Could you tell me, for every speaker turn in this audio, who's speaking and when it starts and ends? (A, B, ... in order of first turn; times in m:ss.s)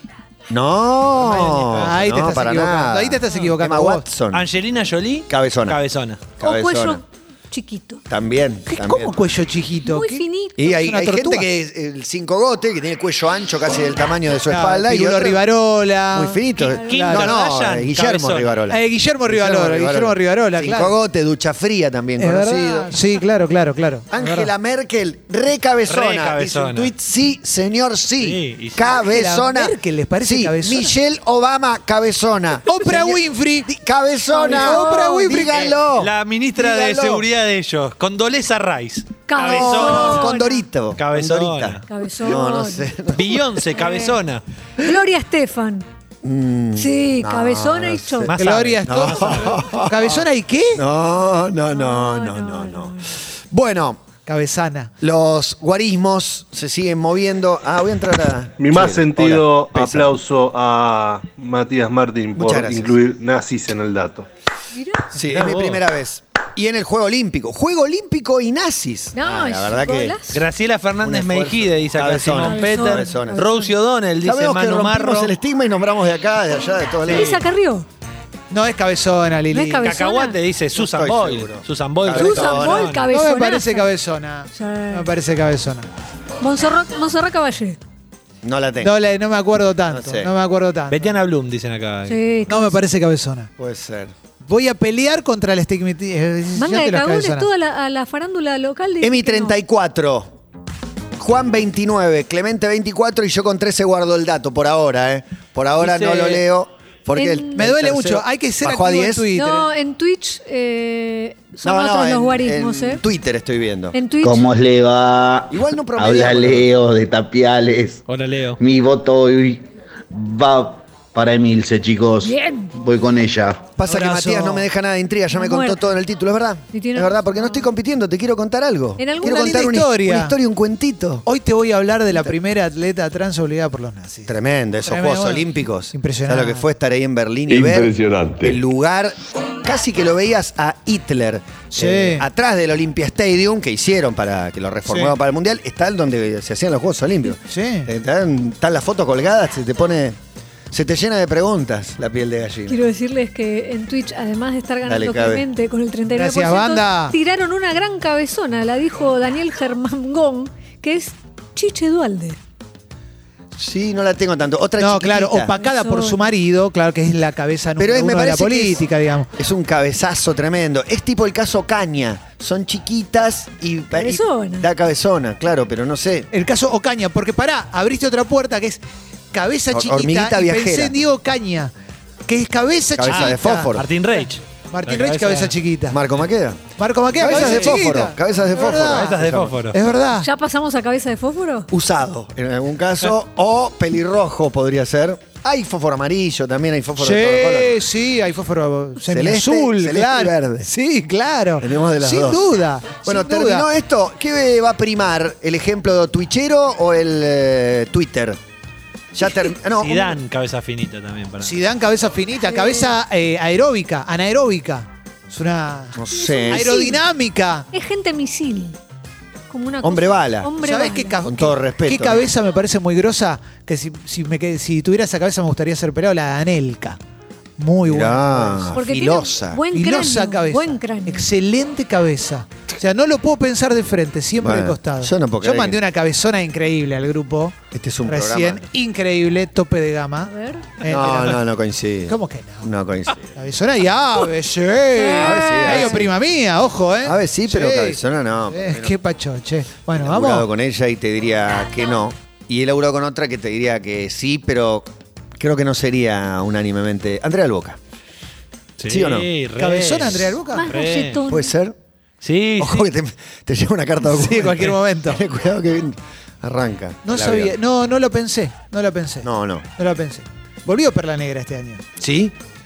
0:00.5-0:04.4 A
0:01.2-0:01.9 B
0:01.7-0:04.0 C
0:04.3-0:06.3 B
0:05.3-0:05.8 A
0:06.4-0:07.0 A
0:06.4-0:08.0 D
0:08.1-0:09.2 A
0:08.7-0:11.5 C
0:09.8-0:10.6 D
0:10.6-0:15.4 A
0:14.5-0:17.3 C
0:16.1-0:22.9 A
0:16.6-0:16.9 D
0:16.8-0:18.5 B
0:18.7-0:20.9 C
0:22.2-0:24.5 C
0:24.1-0:37.3 A
0:25.9-0:26.9 B
0:28.2-0:28.8 B
0:28.9-0:31.0 C
0:32.7-0:33.7 C
0:34.3-0:35.3 D
0:34.4-0:35.7 C
0:35.6-0:40.4 B
0:39.3-0:40.6 D
0:39.4-0:43.4 A
0:41.0-0:41.9 B
0:41.9-0:42.9 D
0:43.1-0:44.4 B
0:43.8-0:44.2 D
0:44.8-0:45.9 D
0:46.2-0:48.3 A
0:46.8-0:48.3 D
0:48.3-0:49.6 B
0:48.4-0:50.8 C
0:48.9-0:50.2 A
0:50.8-0:53.0 A
0:51.7-0:53.0 D
0:53.5-0:54.0 A
0:54.3-0:54.9 C
0:55.0-1:00.2 A
0:58.6-1:04.3 E
1:02.4-1:03.0 A
1:04.7-1:05.1 D
1:05.1-1:10.2 A
1:05.3-1:05.8 B
1:09.1-1:10.4 D
1:10.3-1:15.3 B
1:11.0-1:13.4 A
1:12.4-1:13.7 D
1:14.2-1:17.3 A
1:17.1-1:17.4 B
1:17.1-1:17.9 D
1:18.5-1:19.9 C
1:19.5-1:20.4 D
1:19.8-1:23.1 B
1:20.8-1:22.9 A
1:22.1-1:23.9 D
1:23.1-1:25.9 C
1:24.5-1:25.1 D
1:26.4-1:27.8 D
1:28.4-1:29.0 A
1:28.8-1:31.1 C
1:29.9-1:30.3 A
1:30.9-1:32.2 B
1:32.1-1:32.8 D
1:32.5-1:33.5 C
1:33.6-1:34.1 A
1:34.4-1:37.5 C
1:36.6-1:39.6 D
1:39.0-1:40.3 A
1:41.2-1:49.3 A
1:45.8-1:46.4 B
1:47.2-1:47.6 D
1:47.6-1:49.7 C
1:49.3-1:53.0 D
1:51.6-1:54.0 A
1:53.9-1:54.4 D
1:54.2-1:58.0 F
1:55.5-1:56.7 A
1:58.1-1:58.6 B
1:58.6-2:03.7 F
2:02.2-2:02.7 D
2:03.8-2:11.2 A
2:03.8-2:04.7 C
2:05.3-2:06.0 D
2:06.7-2:07.7 D
2:09.0-2:09.5 D
2:09.2-2:10.4 C
2:11.3-2:16.7 C
2:14.3-2:30.2 A
2:21.8-2:22.3 C
2:24.9-2:25.1 C
2:27.5-2:27.9 C
2:30.7-2:32.8 A
2:32.7-2:42.4 D
2:34.9-2:35.4 A
2:36.1-2:37.2 C
2:43.6-2:45.5 A
2:44.8-2:49.3 C
2:45.6-2:46.3 D
2:47.8-2:48.8 A
2:49.4-2:56.3 A
2:53.9-2:54.7 D
2:56.3-2:58.8 C
2:59.3-3:01.7 C
2:59.7-3:00.9 A
3:02.3-3:03.7 C
3:03.0-3:03.9 A
3:03.1-3:05.6 B
3:04.7-3:06.0 C
3:05.9-3:06.6 A
3:06.8-3:10.3 C
3:07.2-3:09.5 A
3:07.3-3:07.8 B
3:08.8-3:09.8 B
3:10.2-3:11.7 D
3:11.7-3:17.8 A
3:17.0-3:23.7 C
3:19.1-3:20.7 A
3:21.6-3:22.5 A
3:23.0-3:28.4 A
3:29.1-3:30.2 A
3:29.7-3:31.6 B
3:31.4-3:37.7 C
3:32.4-3:32.9 D
3:36.0-3:36.8 A
3:36.1-3:37.0 D
3:37.7-3:38.8 D
3:39.5-3:41.2 D
3:39.8-3:40.5 A
3:40.6-3:47.0 C
3:41.2-3:42.2 A
3:47.6-3:48.8 C
3:47.9-3:49.6 A
3:48.7-3:51.3 D
3:49.7-4:01.4 C
3:54.4-3:55.8 A
3:57.7-3:58.7 A
4:00.2-4:00.7 D
4:00.8-4:03.3 A
4:02.1-4:02.7 C
4:03.4-4:10.5 C
4:04.9-4:06.1 D
4:05.2-4:06.1 A
4:07.0-4:09.0 A
4:09.9-4:17.8 A
4:18.8-4:21.2 B
4:18.9-4:19.3 A
4:19.6-4:20.7 C
4:20.5-4:21.5 D
4:21.2-4:21.8 A
4:22.2-4:22.9 B
4:22.6-4:27.6 A
4:24.0-4:25.2 C
4:27.0-4:29.3 C
4:29.2-4:29.7 A
4:29.8-4:31.8 C
4:32.0-4:32.4 A